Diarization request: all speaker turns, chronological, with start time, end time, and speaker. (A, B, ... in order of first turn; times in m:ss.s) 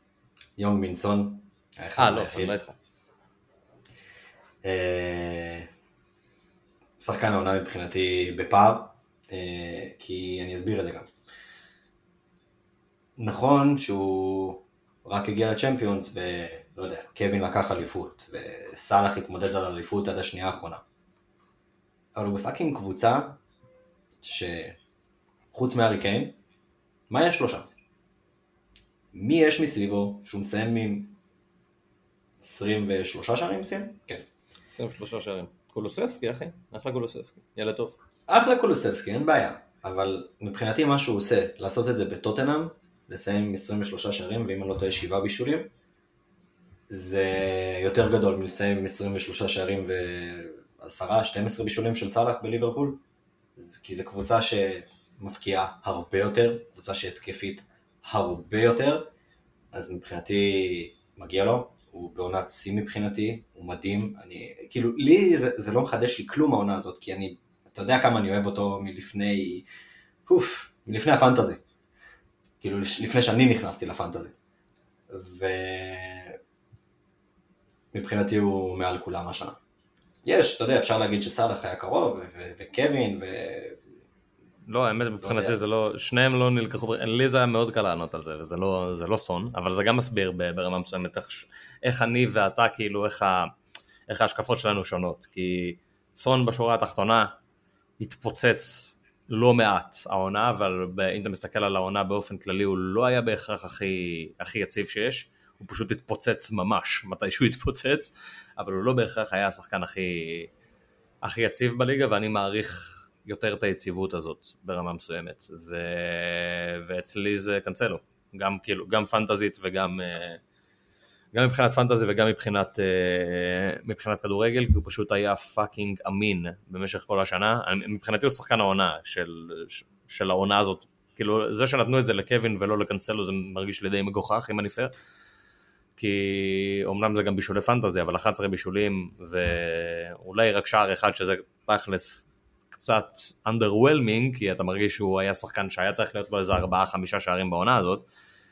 0:00.6-0:02.5 A
0:02.0-0:02.8 B
0:04.6-0:05.7 A
0:07.0-0:11.1 A
0:13.2-0:20.8 A
0:22.2-0:23.4 A
0:24.2-0:24.8 A
0:25.5-0:26.4 A
0:27.1-0:27.7 A
0:29.1-0:31.2 A
0:32.4-0:34.2 A
0:34.7-0:38.0 B
0:38.3-0:45.7 A
0:46.9-0:53.0 A
0:53.6-0:59.1 A
0:59.7-1:09.7 A
1:10.3-1:11.6 A
1:12.6-1:14.3 A
1:15.1-1:16.4 A
1:17.9-1:19.6 A
1:20.2-1:23.8 A
1:24.7-1:33.5 B
1:25.2-1:25.6 A
1:34.1-1:37.3 B
1:38.0-1:50.5 B
1:51.2-2:00.4 B
2:01.3-2:14.9 B
2:16.0-2:28.1 B